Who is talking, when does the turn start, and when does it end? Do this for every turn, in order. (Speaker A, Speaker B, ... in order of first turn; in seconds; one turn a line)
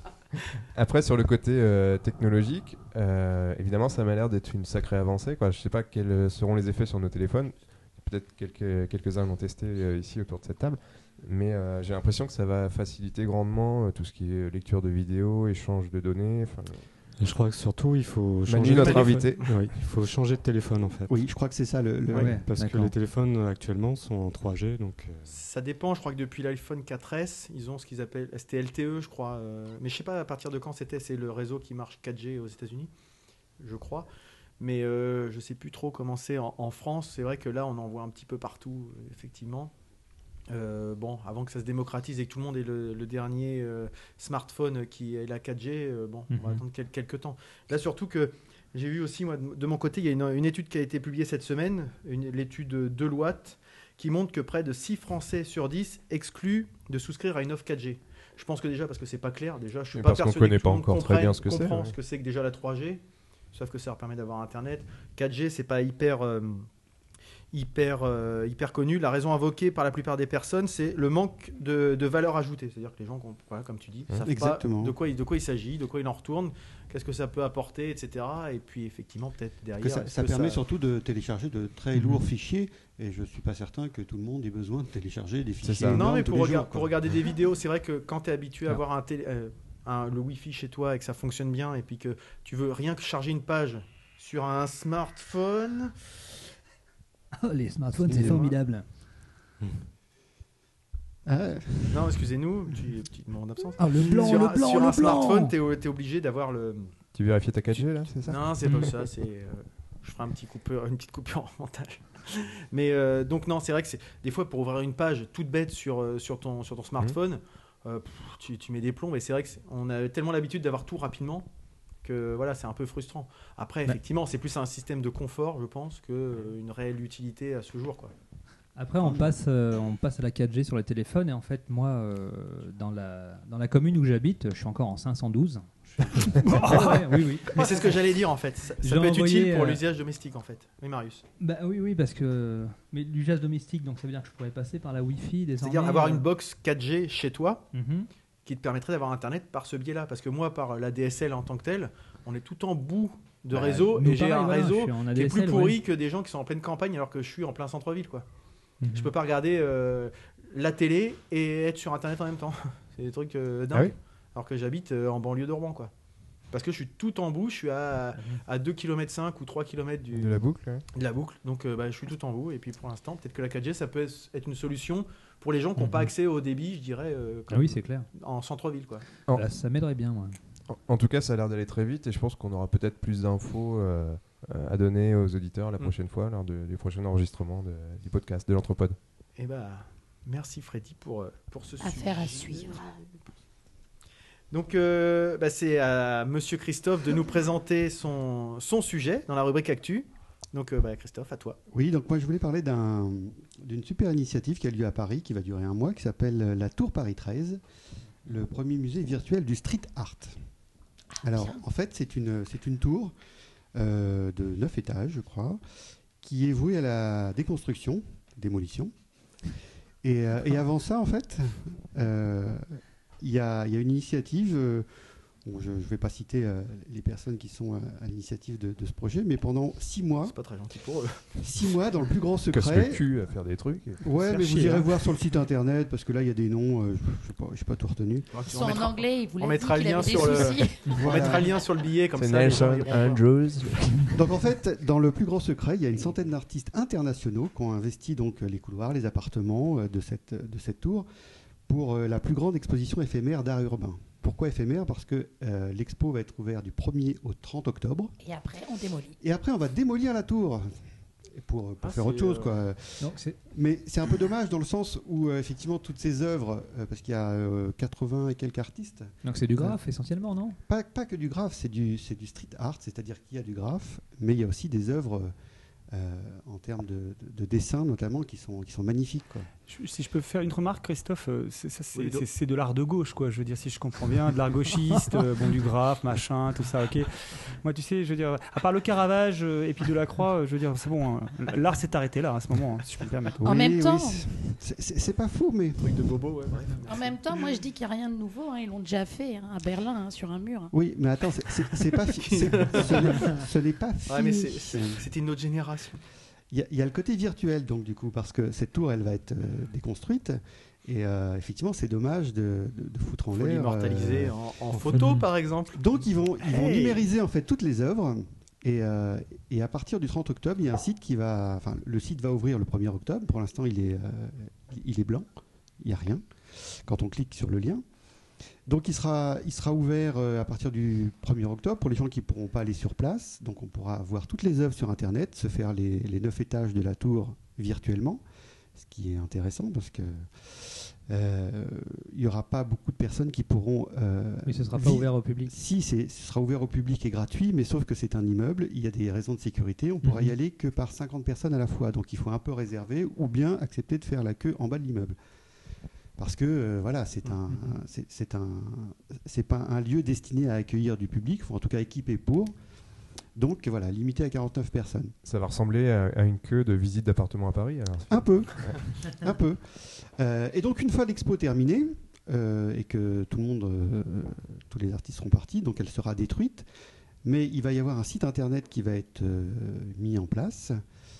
Speaker A: 0.7-16.9
Speaker B: 17.2-21.2
Speaker A: 18.4-19.4
Speaker C: 18.7-19.5
Speaker D: 21.1-22.4
Speaker E: 22.1-22.9
Speaker B: 22.1-25.4
Speaker C: 25.3-32.9
Speaker C: 33.6-34.1
Speaker C: 34.6-39.7
Speaker C: 40.5-66.7
Speaker E: 46.3-46.6
Speaker A: 59.9-61.9
Speaker C: 67.5-80.6
Speaker D: 74.2-75.0
Speaker D: 79.8-87.0
Speaker E: 81.9-82.2
Speaker A: 85.6-86.1
Speaker C: 85.9-95.9
Speaker E: 97.4-98.8
Speaker D: 98.0-98.5
Speaker C: 98.1-98.5
Speaker D: 101.2-102.2
Speaker C: 101.9-107.0
Speaker E: 103.8-105.5
Speaker D: 103.9-104.4
Speaker A: 107.1-108.6
Speaker C: 107.7-121.5
Speaker E: 108.6-108.9
Speaker C: 122.0-128.1
Speaker E: 128.8-138.0
Speaker D: 129.0-129.3
Speaker C: 136.7-141.2
Speaker E: 138.8-139.8
Speaker E: 141.4-146.3
Speaker C: 145.6-147.7
Speaker E: 147.7-148.1
Speaker C: 148.4-158.2
Speaker E: 153.5-155.8
Speaker E: 158.8-159.1
Speaker C: 158.9-165.9
Speaker C: 166.5-179.1
Speaker A: 170.1-170.8
Speaker E: 175.8-176.1
Speaker E: 177.5-178.1
Speaker E: 179.3-180.4
Speaker A: 180.7-189.0
Speaker C: 189.3-192.9
Speaker F: 191.8-192.9
Speaker C: 194.5-201.6
Speaker D: 201.7-207.6
Speaker D: 208.2-210.3
Speaker F: 211.1-211.6
Speaker D: 211.2-213.1
Speaker D: 213.7-215.6
Speaker D: 216.2-218.9
Speaker D: 220.0-224.9
Speaker D: 225.4-230.3
Speaker C: 230.3-231.4
Speaker D: 231.4-233.0
Speaker A: 232.5-234.0
Speaker D: 234.0-238.3
Speaker G: 234.2-234.8
Speaker C: 238.3-243.2
Speaker F: 238.5-241.2
Speaker D: 240.9-241.5
Speaker A: 242.1-244.1
Speaker D: 244.1-251.1
Speaker D: 251.7-258.1
Speaker F: 258.2-259.2
Speaker D: 259.2-260.7
Speaker D: 261.3-269.8
Speaker C: 261.8-262.5
Speaker E: 263.0-263.4
Speaker E: 269.2-270.6
Speaker D: 270.7-275.3
Speaker D: 275.9-279.5
Speaker G: 279.7-293.5
Speaker C: 281.9-282.2
Speaker D: 293.4-296.0
Speaker F: 293.4-294.2
Speaker C: 295.8-297.2
Speaker F: 296.9-300.7
Speaker D: 300.7-305.1
Speaker C: 302.0-303.4
Speaker C: 304.1-306.0
Speaker D: 306.5-314.3
Speaker C: 313.3-315.9
Speaker E: 314.9-315.2
Speaker D: 315.8-325.3
Speaker G: 316.5-317.0
Speaker D: 325.8-327.8
Speaker D: 328.6-338.2
Speaker D: 338.8-355.1
Speaker E: 344.4-345.5
Speaker E: 350.0-350.3
Speaker D: 356.2-362.5
Speaker D: 363.3-365.1
Speaker A: 365.2-368.8
Speaker D: 368.1-376.7
Speaker D: 377.2-380.8